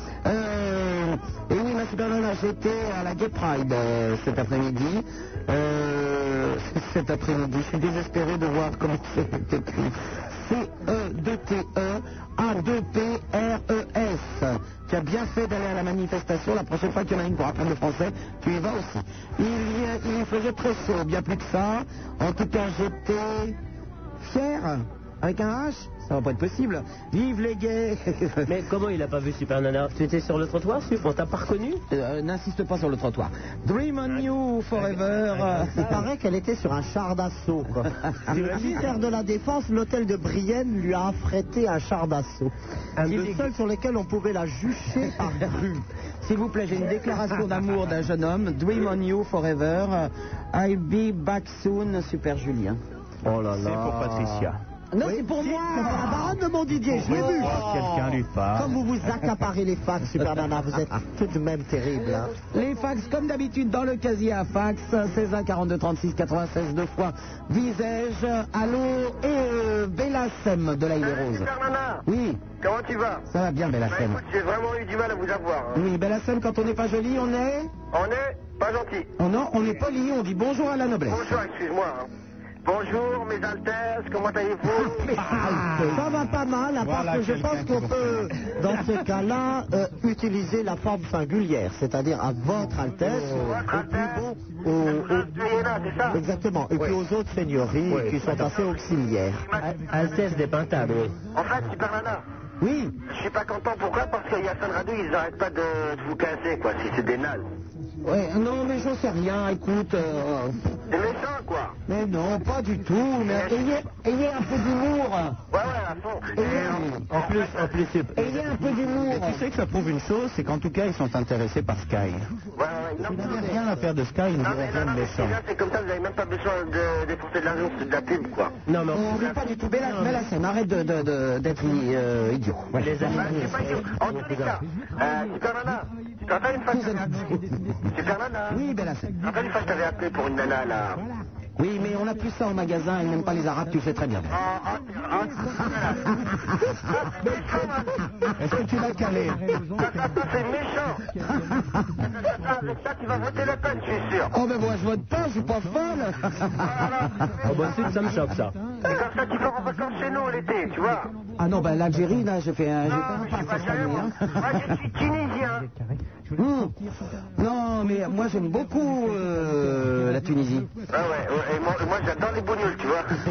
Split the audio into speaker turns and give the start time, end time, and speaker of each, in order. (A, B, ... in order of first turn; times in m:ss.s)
0:00.2-0:23.6 A
0:24.2-0:28.5 A
0:28.5-0:31.8 B
0:31.9-0:35.9 A
0:34.0-0:36.0 B
0:35.7-0:42.5 C
0:38.3-0:39.0 B
0:43.0-0:43.5 B
0:43.1-0:45.8 C
0:46.2-0:52.8 A
0:53.3-0:54.5 C
0:53.5-0:54.6 D
0:54.9-0:56.2 A
0:55.0-1:02.3 C
0:55.8-0:56.0 D
0:56.9-0:58.8 D
1:02.5-1:11.5 A
1:11.0-1:13.2 E
1:12.0-1:12.4 A
1:13.3-1:14.2 A
1:13.9-1:15.8 E
1:15.7-1:17.7 A
1:17.9-1:19.1 E
1:19.2-1:21.3 A
1:21.1-1:22.1 E
1:22.6-1:25.1 E
1:25.5-1:35.3 C
1:26.8-1:28.3 D
1:33.1-1:34.2 E
1:34.8-1:36.2 E
1:36.1-1:39.5 C
1:37.9-1:38.2 B
1:38.3-1:38.8 E
1:39.4-1:39.7 E
1:39.6-1:41.2 B
1:41.3-1:42.2 E
1:42.6-1:43.0 A
1:43.1-1:47.4 E
1:48.0-1:50.7 A
1:50.9-1:51.8 E
1:51.9-1:55.4 A
1:53.2-1:53.7 E
1:55.5-1:57.7 E
1:56.4-1:57.1 A
1:57.1-2:02.3 D
1:58.1-1:59.4 A
2:02.5-2:03.5 E
2:03.1-2:05.4 D
2:04.4-2:08.5 E
2:08.6-2:10.2 B
2:08.9-2:13.7 A
2:12.7-2:14.6 B
2:13.1-2:17.1 E
2:16.7-2:17.4 A
2:17.9-2:18.6 E
2:18.5-2:19.1 A
2:19.2-2:21.0 E
2:21.6-2:24.3 A
2:24.3-2:26.0 E
2:27.1-2:27.9 E
2:28.4-2:29.4 D
2:29.8-2:31.0 E
2:32.1-2:34.3 E
2:34.3-2:36.7 A
2:36.7-2:37.0 E
2:37.4-2:38.6 B
2:38.8-2:41.1 E
2:41.4-2:44.6 A
2:42.9-2:45.6 E
2:46.4-2:46.7 A
2:47.4-2:50.7 A
2:50.9-2:53.1 E